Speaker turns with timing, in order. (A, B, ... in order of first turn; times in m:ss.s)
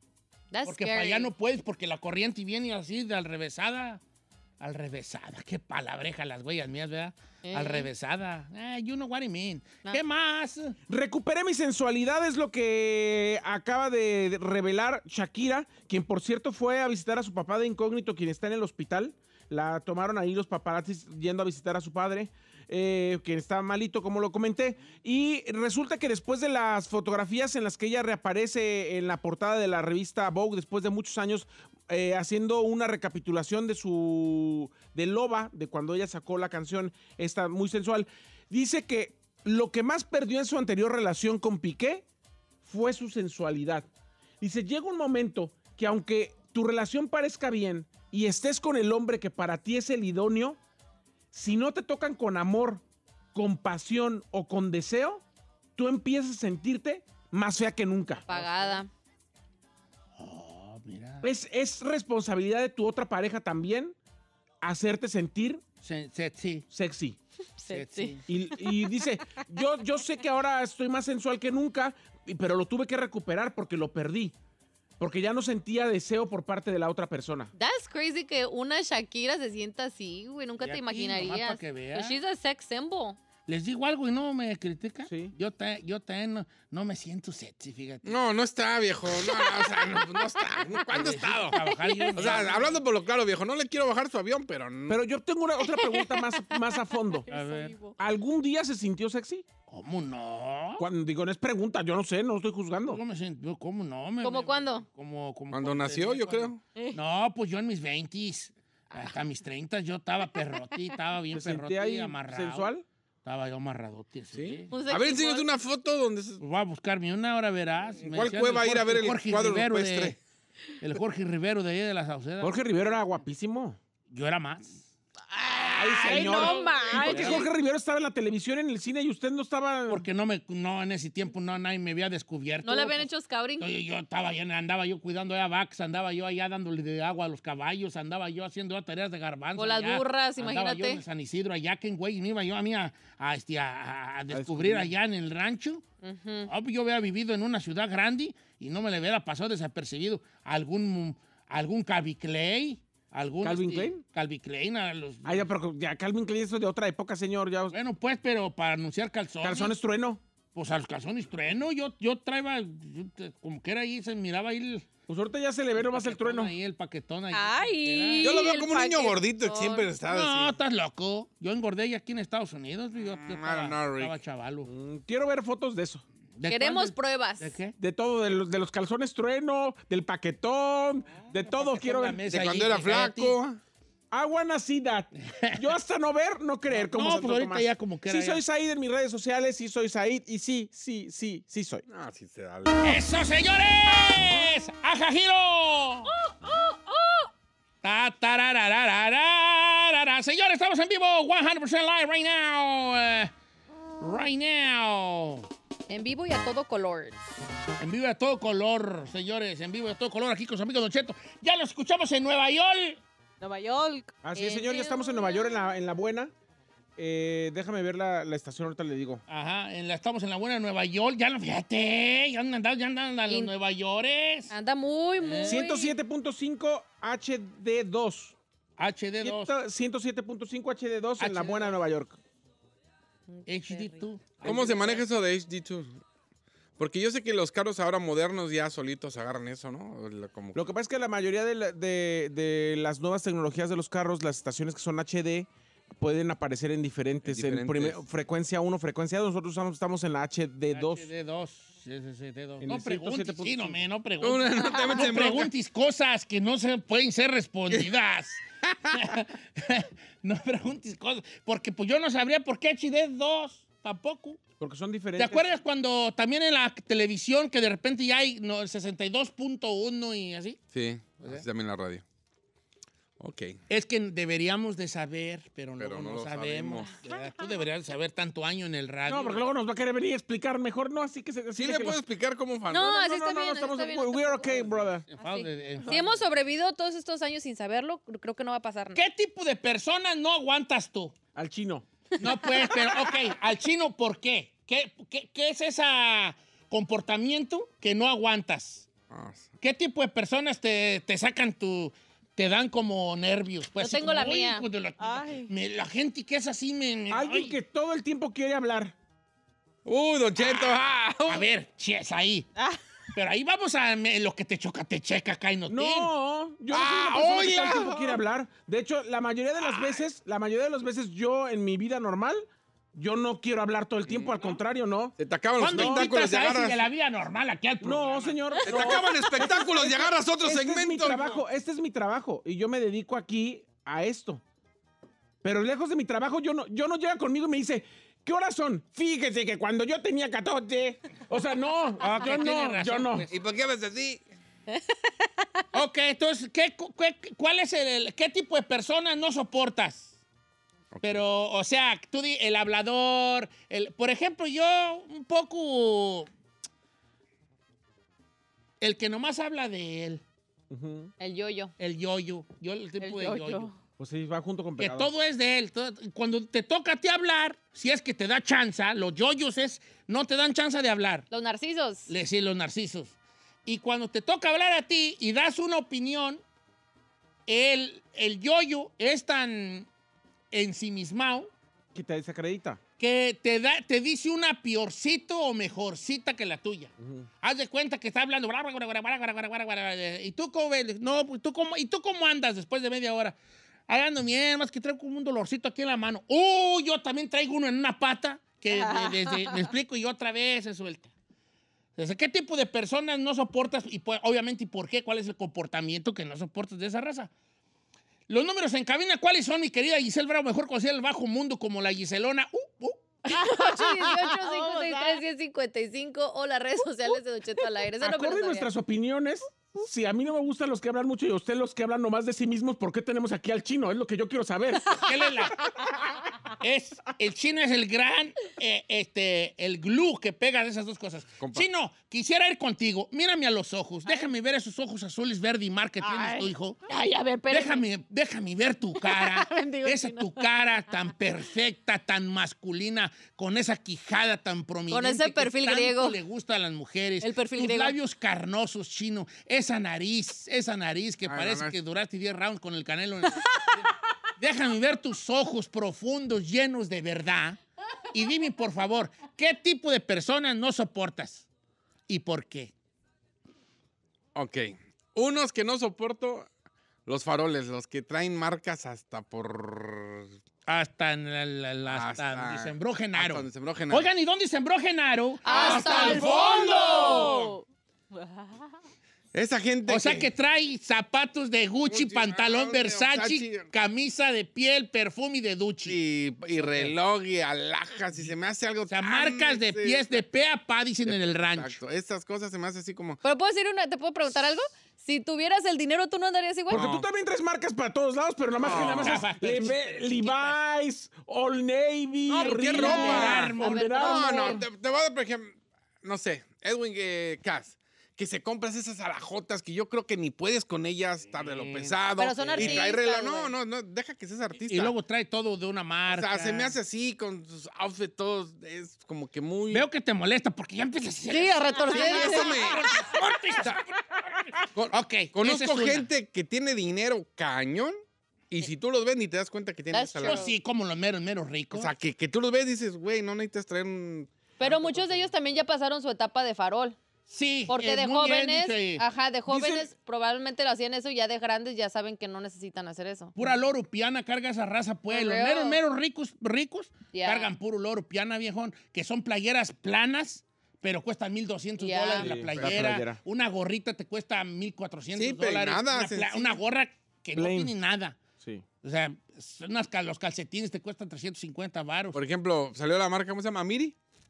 0:00.5-0:01.3 A
0:00.6-0:04.0 B
0:04.6-0:10.7 B
0:07.4-0:07.9 A
0:10.9-0:42.0 C
0:42.6-0:43.9 C
0:44.4-0:50.6 C
0:51.3-0:52.8 C
0:53.3-0:55.2 C
0:55.8-0:58.2 C
0:58.3-0:58.9 A
0:58.3-0:58.8 B
1:00.2-1:01.3 B
1:01.2-1:03.9 C
1:04.6-1:05.6 C
1:05.8-1:06.6 B
1:06.7-1:07.2 C
1:07.6-1:08.7 A
1:07.7-1:08.2 B
1:08.3-1:14.3 C
1:15.0-1:17.5 C
1:17.6-1:23.2 A
1:20.6-1:22.2 B
1:23.5-1:28.1 B
1:25.0-1:25.3 C
1:28.0-1:31.6 D
1:29.4-1:29.7 A
1:30.9-1:32.7 B
1:31.6-1:32.4 A
1:32.2-1:35.0 D
1:34.9-1:37.3 C
1:35.6-1:36.5 A
1:37.1-1:37.9 E
1:37.3-1:37.7 B
1:38.0-1:39.4 C
1:39.7-1:40.8 B
1:40.8-1:43.0 C
1:42.9-1:52.7 B
1:44.2-1:44.8 A
1:45.5-1:46.6 D
1:51.3-1:52.8 C
1:53.2-1:54.7 B
1:54.3-1:56.4 D
1:54.7-1:55.5 A
1:56.4-2:00.2 B
1:58.0-2:00.2 D
2:00.8-2:02.6 B
2:02.4-2:03.8 C
2:04.1-2:04.8 B
2:05.5-2:07.5 A
2:05.7-2:10.0 C
2:06.0-2:07.4 B
2:06.1-2:07.1 E
2:09.9-2:25.8 B
2:12.6-2:13.7 A
2:19.6-2:21.0 A
2:24.3-2:24.9 C
2:26.0-2:26.5 A
2:26.5-2:35.5 B
2:33.4-2:34.0 C
2:35.2-2:37.7 C
2:37.7-2:39.8 B
2:39.4-2:40.2 C
2:40.5-2:44.8 B
2:45.1-2:46.5 C
2:45.8-2:48.4 B
2:47.3-2:49.9 E
2:47.5-2:48.7 A
2:48.2-2:50.6 D
2:50.1-2:54.7 B
2:53.0-2:54.1 D
2:54.6-2:56.0 C
2:56.4-2:57.7 B
2:56.4-2:57.5 A
2:57.8-3:02.2 C
3:01.2-3:03.4 B
3:02.3-3:03.6 D
3:04.1-3:11.8 C
3:05.2-3:05.6 B
3:06.7-3:08.4 B
3:11.9-3:13.0 D
3:12.8-3:16.1 B
3:16.4-3:17.3 A
3:17.8-3:23.3 B
3:24.0-3:25.5 B
3:25.9-3:27.2 A
3:27.8-3:33.0 B
3:33.4-3:34.1 E
3:34.2-3:36.3 C
3:34.3-3:35.6 A
3:37.0-3:39.2 C
3:39.3-3:44.5 B
3:44.5-3:46.0 A
3:45.2-3:45.7 B
3:45.5-3:48.3 C
3:48.8-3:49.5 B
3:49.2-3:52.2 C
3:51.2-3:51.8 B
3:53.3-3:54.0 A
3:53.4-3:55.0 B
3:54.4-3:56.0 D
3:56.8-4:00.7 D
4:00.5-4:11.1 C
4:07.2-4:08.0 D
4:10.7-4:18.4 B
4:12.6-4:13.8 C
4:14.2-4:15.5 D
4:18.7-4:19.0 D
4:18.9-4:24.4 B
4:24.6-4:25.4 C
4:25.2-4:30.6 B
4:30.7-4:32.0 D
4:33.2-4:33.6 D
4:33.7-4:39.5 B
4:35.8-4:36.9 D
4:39.1-4:42.0 C
4:41.6-4:43.0 D
4:42.7-4:49.0 A
4:42.9-4:45.1 C
4:45.1-4:46.1 B
4:45.8-4:46.1 E
4:48.9-4:51.1 B
4:51.3-4:53.1 C
4:52.2-4:58.8 B
4:59.1-4:59.5 D
4:59.6-5:07.5 B
5:03.8-5:04.6 A
5:05.0-5:05.5 E
5:07.1-5:08.9 C
5:09.8-5:11.4 D
5:10.4-5:10.7 B
5:11.2-5:12.5 B
5:13.1-5:16.1 B
5:15.7-5:25.1 C
5:16.7-5:18.0 D
5:24.1-5:24.5 D
5:25.2-5:26.9 D
5:25.6-5:28.9 B
5:25.7-5:26.1 C
5:27.8-5:29.3 C
5:28.6-5:31.4 D
5:30.4-5:34.4 C
5:35.4-5:43.2 C
5:42.0-5:43.3 B
5:43.2-5:44.2 D
5:45.7-5:50.1 B
5:50.9-5:51.2 D
5:51.0-5:56.3 B
5:58.8-6:00.2 B
6:00.7-6:01.1 C
6:01.2-6:01.7 A
6:01.8-6:03.7 B
6:03.0-6:03.8 E
6:04.0-6:05.1 C
6:04.8-6:11.2 B
6:11.3-6:12.1 A
6:12.1-6:13.1 B
6:13.6-6:16.4 B
6:17.5-6:19.9 B
6:20.5-6:21.5 B
6:21.9-6:22.8 C
6:23.0-6:33.4 B
6:27.0-6:27.3 C
6:33.9-6:41.1 B
6:38.7-6:39.7 E
6:42.0-6:47.3 B
6:48.3-6:53.1 B
6:53.3-6:58.7 A
6:53.4-6:55.2 E
6:58.0-7:04.9 C
7:05.0-7:05.6 B
7:06.6-7:16.8 B
7:11.4-7:11.7 D
7:16.2-7:16.5 E
7:16.9-7:17.8 A
7:17.5-7:33.5 B
7:19.1-7:20.3 A
7:24.9-7:26.2 A
7:27.2-7:28.0 A
7:31.3-7:31.7 D
7:34.4-7:37.6 B
7:38.1-7:41.5 B
7:42.1-7:42.7 B
7:44.3-7:46.5 D
7:47.0-7:50.3 D
7:50.7-7:56.4 B
7:51.9-7:54.1 D
7:55.4-7:57.4 A
7:55.5-7:57.5 D
7:56.7-7:57.6 E
7:58.1-7:58.7 E
7:59.3-8:00.3 D
7:59.9-8:06.0 B
8:01.9-8:03.7 D
8:05.8-8:10.2 D
8:06.6-8:06.9 B
8:08.9-8:11.8 B
8:11.0-8:13.2 D
8:13.2-8:16.8 A
8:16.7-8:17.1 D
8:16.7-8:24.6 C
8:18.6-8:19.2 D
8:18.6-8:20.6 B
8:22.3-8:34.9 D
8:22.4-8:23.9 B
8:22.5-8:24.6 A
8:31.3-8:31.9 B
8:32.2-8:33.5 A
8:32.6-8:32.8 B
8:34.6-8:36.7 B
8:36.1-8:39.8 D
8:39.7-8:46.1 B
8:41.3-8:42.8 A
8:41.9-8:43.0 D
8:44.7-8:47.9 D
8:48.5-8:50.5 D
8:49.9-8:50.5 A
8:50.2-8:51.9 B
8:51.7-8:54.3 D
8:54.6-8:57.0 A
8:57.3-8:59.0 B
8:57.7-9:03.3 A
8:59.5-8:59.9 C
9:03.4-9:18.2 B
9:05.1-9:05.8 A
9:07.1-9:07.5 A
9:11.8-9:12.3 A
9:12.2-9:13.2 C
9:12.6-9:12.8 D
9:15.1-9:16.6 D
9:17.4-9:17.7 C
9:18.8-9:22.2 B
9:22.1-9:24.0 D